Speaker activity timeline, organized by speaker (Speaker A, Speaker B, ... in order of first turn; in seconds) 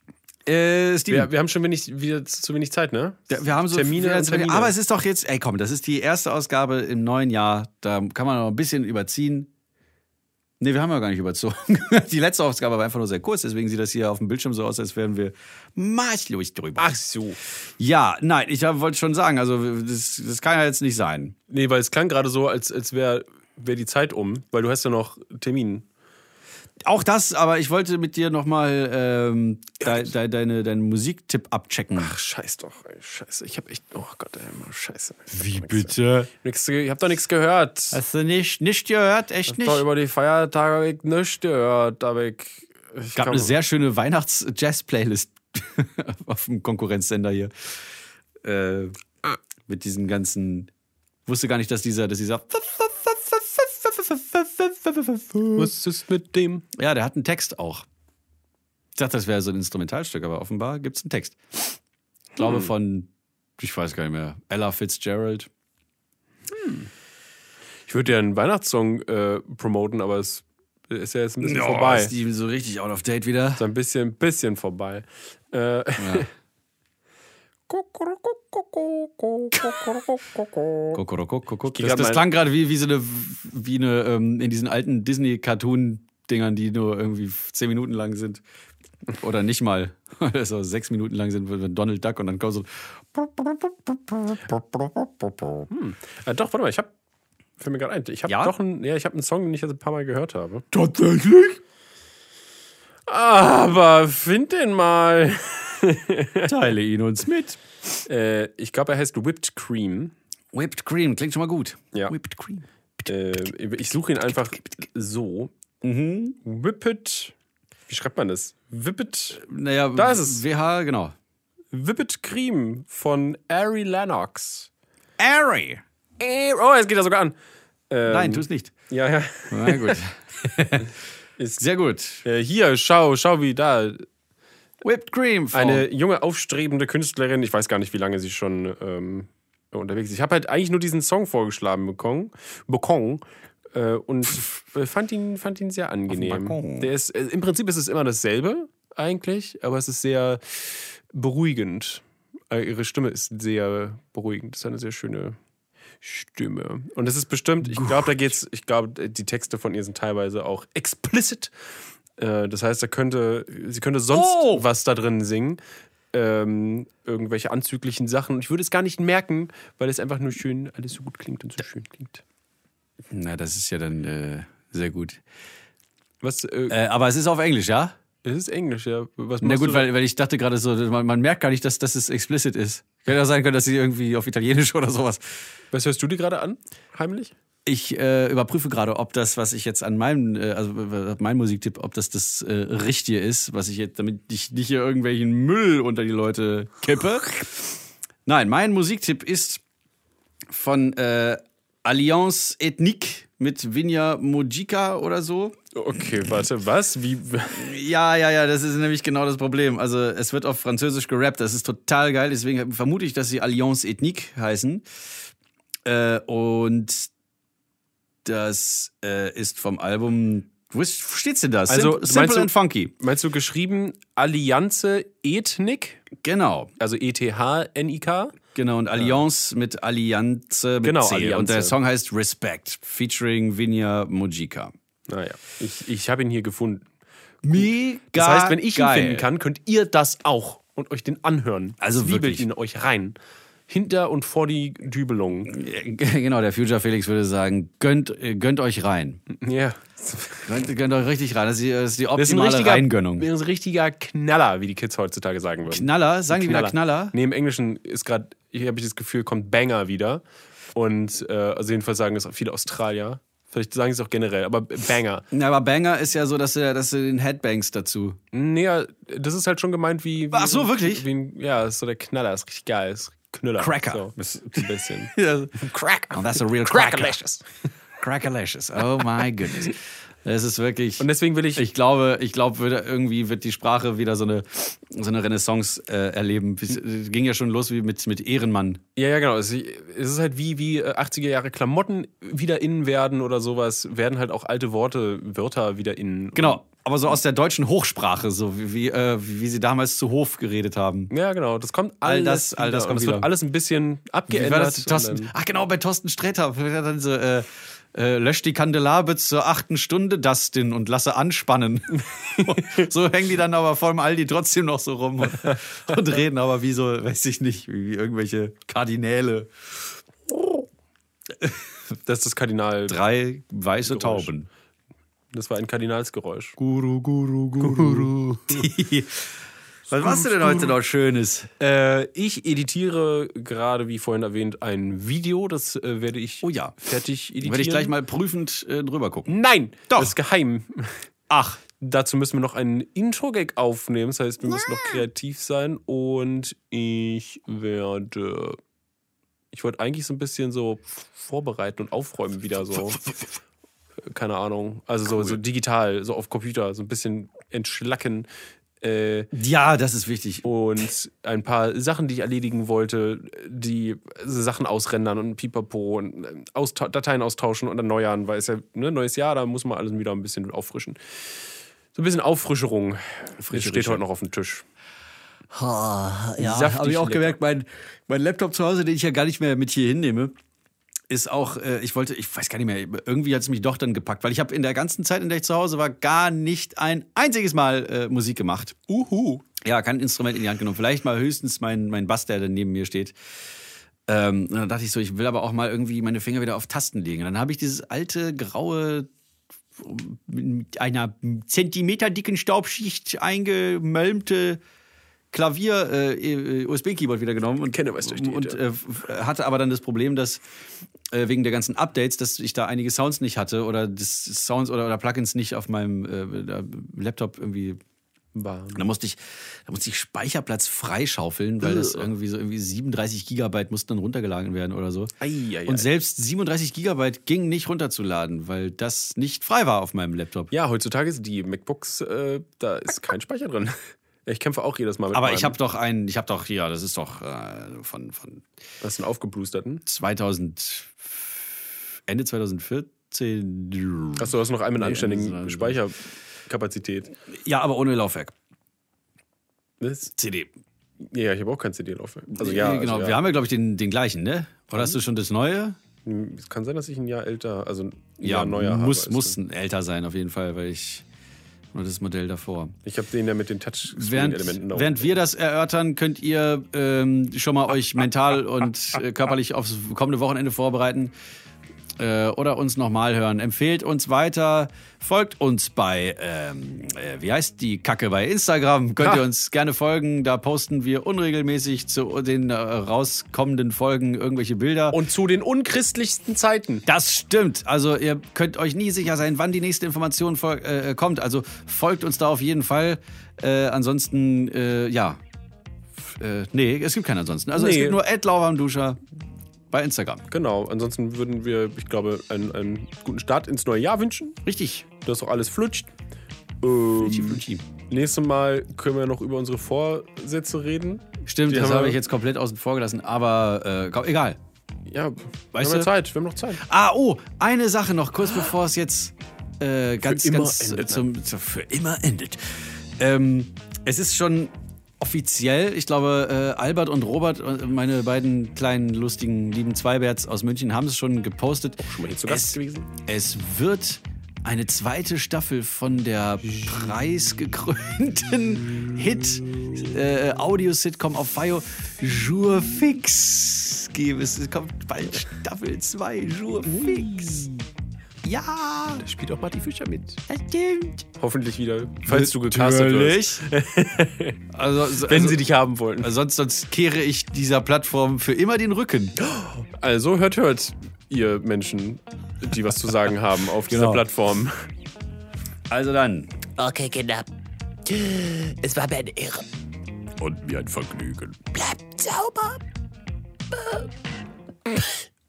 Speaker A: 0.5-1.3, 3.3-9.5, 10.6-17.0, 17.8-21.4, 26.8-32.1, 35.3-36.3, 37.9-39.8, 43.1-47.7, 48.4-49.0, 49.7-50.7, 51.2-55.7, 56.7-57.9, 59.0-61.8, 62.4-65.5, 71.4-73.7, 76.0-76.3, 79.5-79.8, 80.9-88.4, 89.1-95.7, 98.3-98.5, 100.7-101.6, 106.4-107.6, 110.5-113.5, 115.8-116.4, 119.3-121.1, 125.2-125.8, 128.1-128.7, 129.5-130.9, 131.6-132.2, 134.8-135.8, 146.1-146.9, 157.7-158.1, 164.1-164.7, 173.1-175.2, 176.7-177.9, 179.4-185.2, 187.7-199.6, 200.5-205.6, 207.5-214.8, 215.8-217.1, 218.2-222.9, 226.2-226.7, 228.5-234.7, 237.4-239.3, 241.8-242.5, 245.5-249.2, 250.4-253.3, 255.7-257.1, 265.3-268.2, 270.3-271.1, 273.6-277.2, 278.0-288.8, 296.3-301.1, 302.0-303.3, 304.3-319.5, 322.9-324.5, 326.6-329.3, 329.9-331.5, 336.4-336.8, 337.4-339.3, 339.9-340.1, 341.3-341.6, 359.3-360.4, 373.4-374.0, 375.5-380.3, 381.1-388.9, 389.5-393.1, 394.1-399.1, 399.8-404.6, 405.3-410.4, 411.1-417.8, 418.7-425.1, 425.6-430.5, 435.1-438.4, 439.9-441.5, 442.1-445.8, 447.4-448.3, 450.1-450.5, 452.3-455.8, 458.2-461.0, 461.7-462.8, 463.9-471.1, 472.0-485.0, 486.9-495.2, 496.1-499.0, 499.7-500.2, 504.4-504.9, 507.0-507.6, 511.2-514.4, 515.5-515.9, 516.6-547.6, 548.2-549.0, 550.3-551.0, 552.0-553.4, 554.5-555.5, 556.0-559.1, 563.7-564.0, 565.7-566.3, 570.2-571.3
Speaker B: 1.1-4.7, 16.8-17.4, 21.5-25.9, 31.9-38.0, 39.5-43.5, 55.5-56.6, 66.5-66.9, 67.9-72.1, 73.6-76.3, 77.7-81.0, 81.7-82.2, 95.7-96.9, 97.6-100.7, 103.1-106.6, 108.1-110.1, 113.1-115.5, 116.4-117.3, 117.9-119.4, 120.0-120.4, 121.7-124.7, 126.2-127.3, 127.9-130.0, 132.2-134.1, 135.5-155.4, 156.0-161.5, 162.2-165.6, 166.1-172.2, 176.2-176.8, 178.2-179.9, 185.7-187.3, 205.7-207.7, 221.7-226.0, 226.8-228.3, 228.9-229.2, 230.8-231.8, 235.1-236.9, 237.6-243.2, 243.7-245.5, 249.3-250.6, 252.2-265.2, 268.3-277.4, 281.0-281.7, 288.9-296.6, 301.1-305.3, 312.4-312.8, 322.1-323.0, 323.9-324.3, 325.3-326.6, 327.6-328.7, 329.9-330.7, 331.6-337.9, 339.3-341.0, 341.7-348.6, 349.5-353.0, 354.0-358.3, 358.8-359.3, 360.4-371.0, 371.9-374.6, 376.4-377.4, 388.9-389.4, 407.7-408.6, 418.3-418.8, 421.6-422.1, 425.2-425.9, 430.5-435.6, 438.8-439.8, 444.2-447.1, 449.8-450.1, 451.0-453.2, 456.0-459.4, 462.8-465.1, 484.9-486.8, 497.5-498.0, 500.3-504.4, 505.0-505.9, 506.6-512.0, 514.9-516.6, 520.0-521.0, 531.8-532.9, 546.8-547.1, 549.0-550.2, 551.2-556.1, 559.2-564.5
Speaker C: 566.6-567.3, 567.8-569.5, 571.4-572.6, 573.5-573.9